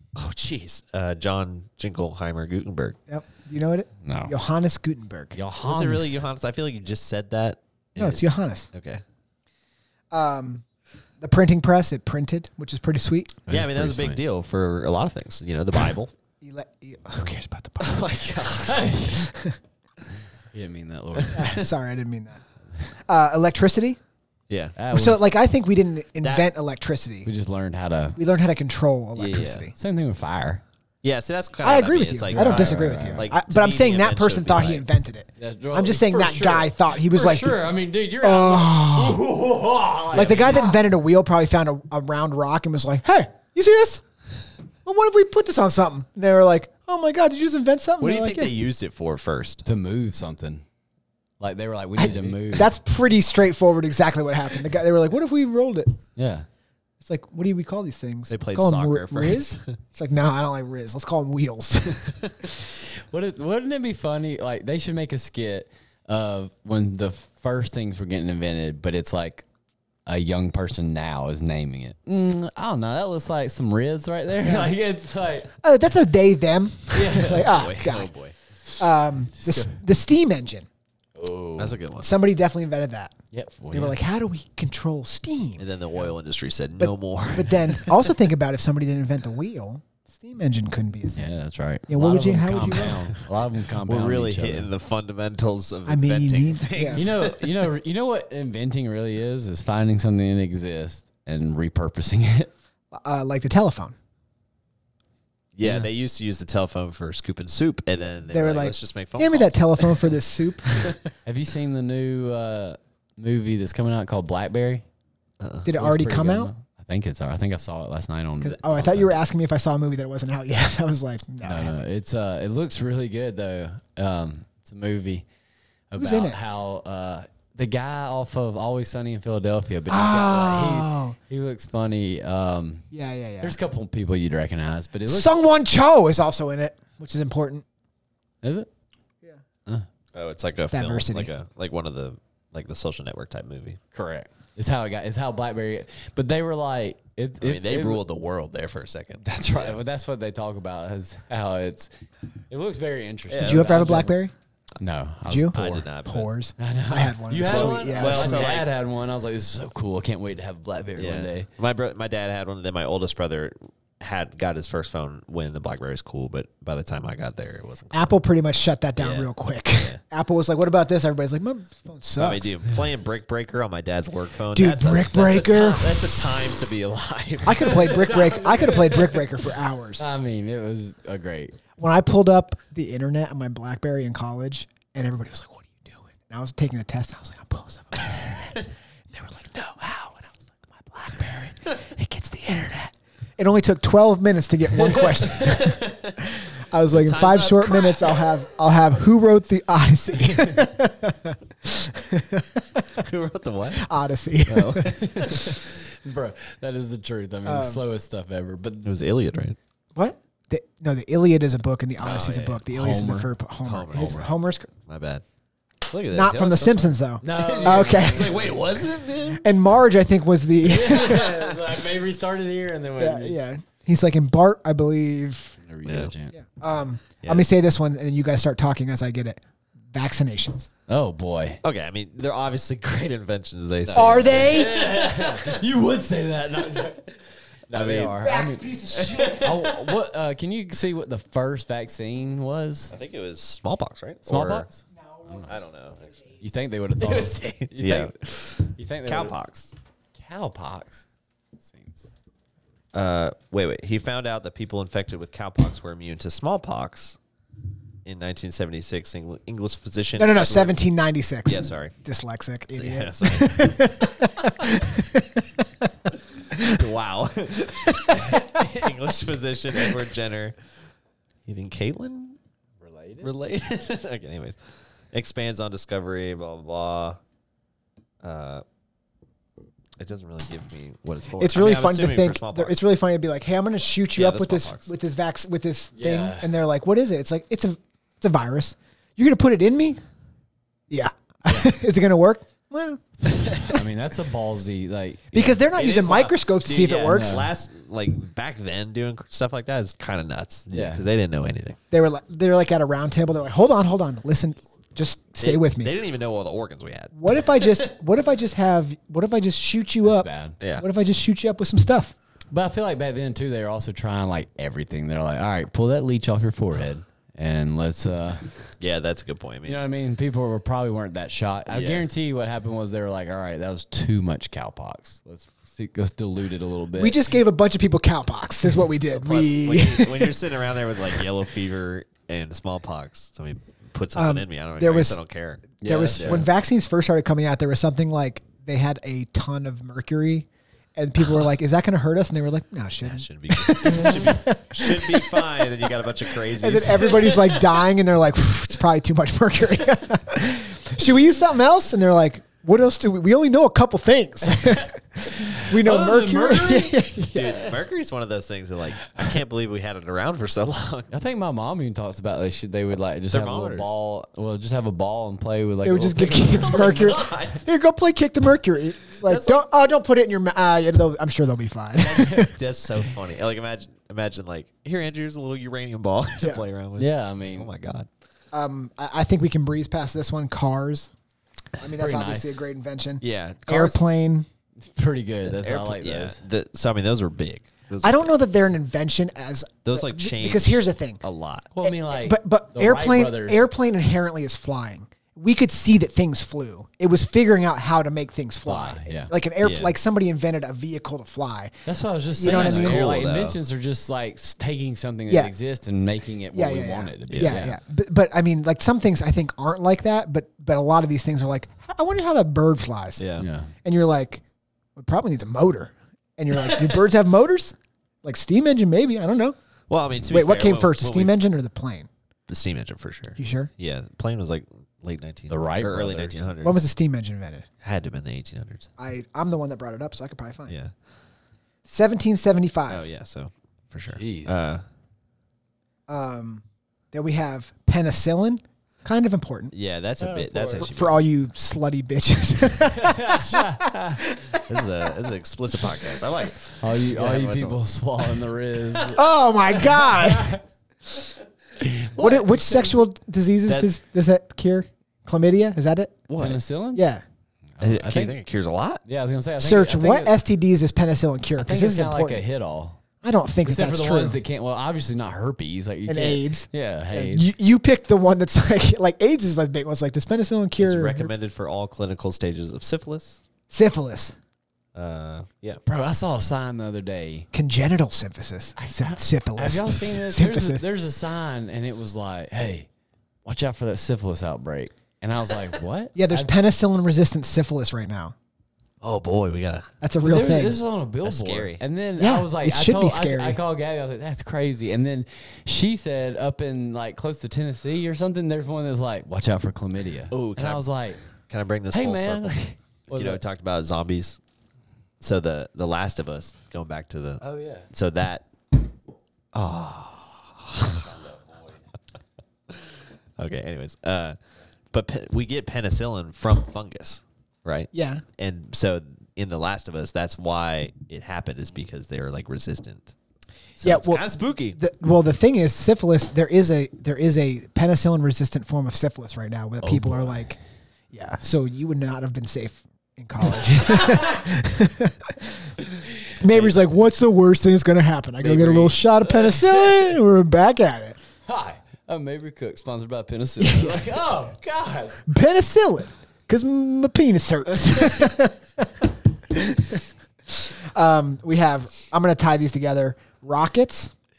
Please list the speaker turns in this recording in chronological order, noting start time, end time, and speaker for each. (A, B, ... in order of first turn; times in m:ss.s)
0:00.2-0:03.0 A
0:03.1-0:05.4 B
0:04.0-0:04.3 C
0:05.3-0:06.2 C
0:05.6-0:09.0 A
0:08.0-0:08.7 B
0:10.1-0:10.6 B
0:11.2-0:13.4 B
0:13.5-0:14.2 C
0:13.5-0:16.1 A
0:16.4-0:18.3 B
0:17.8-0:18.9 A
0:18.6-0:19.3 C
0:19.1-0:19.6 B
0:20.5-0:21.6 C
0:21.2-0:21.6 A
0:21.3-0:22.4 B
0:23.1-0:24.0 B
0:24.5-0:24.7 A
0:24.8-0:25.2 C
0:24.9-0:27.3 B
0:26.2-0:26.5 A
0:27.2-0:28.2 C
0:28.2-0:29.7 B
0:29.2-0:29.7 A
0:29.8-0:30.6 C
0:31.0-0:34.8 A
0:31.6-0:37.6 B
0:32.3-0:33.2 C
0:35.4-0:40.8 C
0:38.2-0:39.2 B
0:40.1-0:44.0 B
0:44.8-0:48.5 B
0:48.0-0:49.6 A
0:49.6-0:50.6 C
0:51.4-0:52.7 C
0:52.0-0:56.0 B
0:56.2-0:56.4 C
0:57.0-1:02.5 B
0:58.3-0:59.8 A
1:03.1-1:09.4 C
1:10.0-1:15.5 C
1:14.4-1:14.7 B
1:15.6-1:18.1 B
1:16.9-1:17.7 C
1:17.2-1:18.3 A
1:18.8-1:20.7 B
1:19.4-1:19.7 C
1:21.2-1:21.8 C
1:21.6-1:22.1 A
1:22.0-1:23.1 B
1:23.3-1:24.0 C
1:23.7-1:25.6 B
1:25.6-1:28.0 A
1:26.8-1:31.3 B
1:31.2-1:34.7 C
1:31.9-1:33.0 B
1:33.8-1:37.5 A
1:35.9-1:37.1 B
1:36.9-1:42.5 C
1:42.9-1:43.9 B
1:45.6-1:51.0 A
1:45.6-1:45.9 C
1:48.3-1:51.0 B
1:51.2-1:54.8 C
1:55.4-1:55.7 A
1:55.6-1:56.5 B
1:55.7-1:59.1 C
1:58.4-2:01.8 B
2:01.4-2:05.2 C
2:05.9-2:12.9 C
2:06.0-2:06.4 B
2:09.9-2:11.2 B
2:12.9-2:13.5 B
2:13.4-2:15.4 C
2:15.1-2:17.6 B
2:18.4-2:18.7 C
2:20.1-2:23.8 A
2:20.7-2:21.3 B
2:23.9-2:28.0 C
2:27.4-2:29.8 A
2:29.2-2:31.9 C
2:32.5-2:34.2 C
2:33.3-2:33.7 A
2:33.4-2:34.3 B
2:34.8-2:35.9 C
2:35.2-2:38.5 B
2:35.5-2:36.3 A
2:36.6-2:41.4 C
2:37.4-2:38.7 A
2:41.0-2:48.2 A
2:47.9-2:52.5 B
2:49.0-2:50.0 A
2:52.2-2:57.9 A
2:54.5-2:56.6 B
2:57.4-3:00.0 B
2:57.6-2:59.2 C
3:00.0-3:01.6 C
3:01.8-3:08.6 B
3:09.1-3:23.0 B
3:15.0-3:16.2 A
3:16.9-3:18.5 A
3:23.0-3:23.9 A
3:23.8-3:25.5 B
3:24.4-3:25.6 A
3:25.0-3:28.8 C
3:27.4-3:27.8 B
3:28.8-3:29.6 A
3:29.9-3:34.7 B
3:32.0-3:32.6 A
3:32.7-3:33.3 C
3:33.6-3:35.2 A
3:35.9-3:39.4 A
3:36.1-3:38.5 B
3:37.2-3:38.6 C
3:39.3-3:41.5 B
3:40.6-3:43.4 C
3:43.0-3:45.6 B
3:45.6-3:46.3 C
3:45.8-3:46.1 A
3:46.3-3:50.7 B
3:47.2-3:47.5 A
3:50.9-3:51.6 C
3:51.6-3:55.5 A
3:53.8-4:02.9 C
3:53.9-3:54.9 B
3:57.7-4:00.0 A
3:58.2-3:59.5 B
4:02.9-4:04.7 A
4:04.2-4:05.5 C
4:05.4-4:06.1 A
4:06.4-4:08.1 C
4:07.0-4:09.7 A
4:08.7-4:09.3 C
4:10.2-4:11.0 C
4:11.6-4:12.1 C
4:12.9-4:17.2 A
4:18.0-4:20.8 A
4:20.2-4:25.9 B
4:21.4-4:21.9 A
4:22.7-4:24.5 A
4:26.5-4:26.8 B
4:26.6-4:30.5 A
4:31.4-4:32.4 A
4:32.8-4:33.3 C
4:33.2-4:34.6 A
4:35.1-4:37.2 A
4:38.2-4:38.6 A
4:40.0-4:42.8 A
4:41.4-4:50.0 B
4:44.1-4:44.9 A
4:45.9-4:46.5 C
4:50.9-4:53.8 B
4:53.4-4:55.6 C
4:55.3-4:57.4 B
4:55.7-5:01.8 A
4:57.0-4:57.5 C
5:00.7-5:01.0 C
5:01.9-5:05.9 B
5:05.4-5:07.8 A
5:07.2-5:12.1 B
5:10.0-5:10.6 C
5:10.6-5:10.8 A
5:12.5-5:18.6 C
5:18.8-5:19.8 A
5:19.6-5:27.2 C
5:21.7-5:22.0 A
5:27.0-5:30.4 B
5:29.1-5:36.5 A
5:34.2-5:35.2 B
5:35.8-5:36.5 C
5:35.8-5:57.7 B
5:43.0-5:47.6 A
5:55.5-5:57.0 C
5:57.3-6:01.1 A
6:01.1-6:07.0 C
6:03.3-6:04.0 A
6:05.8-6:12.5 B
6:06.5-6:07.6 A
6:09.2-6:09.6 A
6:12.1-6:12.4 C
6:12.2-6:18.1 A
6:17.0-6:17.7 C
6:18.5-6:21.1 B
6:21.8-6:24.4 B
6:22.0-6:22.5 C
6:23.2-6:24.0 A
6:24.8-6:26.4 C
6:25.5-6:28.3 A
6:28.0-6:31.2 B
6:29.8-6:31.7 A
6:31.7-6:33.6 C
6:31.8-6:41.8 B
6:38.6-6:39.3 C
6:39.6-6:39.9 A
6:41.8-6:47.8 C
6:42.3-6:43.1 B
6:42.4-6:43.6 A
6:46.5-6:53.2 B
6:47.3-6:47.6 A
6:53.2-6:53.5 A
6:53.4-6:53.7 C
6:53.8-6:54.4 B
6:55.0-6:59.6 B
6:59.9-7:01.4 A
7:00.3-7:02.1 B
7:02.5-7:06.8 A
7:03.4-7:03.7 B
7:05.5-7:06.5 C
7:06.6-7:07.7 B
7:07.8-7:08.9 A
7:09.0-7:10.7 B
7:11.8-7:13.0 B
7:12.9-7:14.8 A
7:14.1-7:14.6 C
7:16.1-7:19.7 B
7:19.7-7:21.2 A
7:20.2-7:20.9 C
7:20.8-7:24.9 B
7:22.9-7:24.2 C
7:24.6-7:27.8 A
7:26.8-7:29.3 C
7:29.1-7:30.6 B
7:29.8-7:30.6 C
7:32.2-7:36.2 B
7:32.2-7:32.9 A
7:33.7-7:33.9 A
7:36.3-7:36.6 A
7:36.4-7:37.0 C
7:36.9-7:37.2 B
7:37.8-7:38.4 C
7:37.8-7:39.0 A
7:39.0-7:40.4 C
7:39.6-7:42.4 B
7:41.6-7:43.0 C
7:43.2-7:44.4 B
7:43.6-7:47.5 C
7:46.1-7:51.3 B
7:50.8-7:53.4 A
7:53.7-7:54.4 B
7:54.9-7:55.8 A
7:55.8-7:57.5 C
7:57.5-8:00.8 B
7:58.8-8:02.9 C
8:03.4-8:06.5 C
8:06.1-8:08.3 B
8:09.0-8:09.9 A
8:10.0-8:10.8 B
8:10.2-8:21.2 C
8:11.2-8:11.8 A
8:12.2-8:13.6 B
8:20.3-8:20.8 A
8:21.5-8:22.6 A
8:21.9-8:23.4 C
8:23.1-8:24.4 A
8:25.2-8:28.4 A
8:27.4-8:27.9 C
8:29.5-8:31.0 A
8:30.8-8:31.7 C
8:32.7-8:34.4 A
8:34.9-8:43.1 A
8:37.9-8:38.2 B
8:43.8-8:44.8 A
8:43.8-8:50.6 B
8:49.8-8:50.5 C
8:51.1-8:55.7 B
8:54.0-8:54.4 C
8:56.3-8:56.7 C
8:56.4-9:01.2 B
8:58.4-9:00.1 C
9:01.5-9:05.2 C
9:03.6-9:04.1 B
9:05.3-9:14.1 B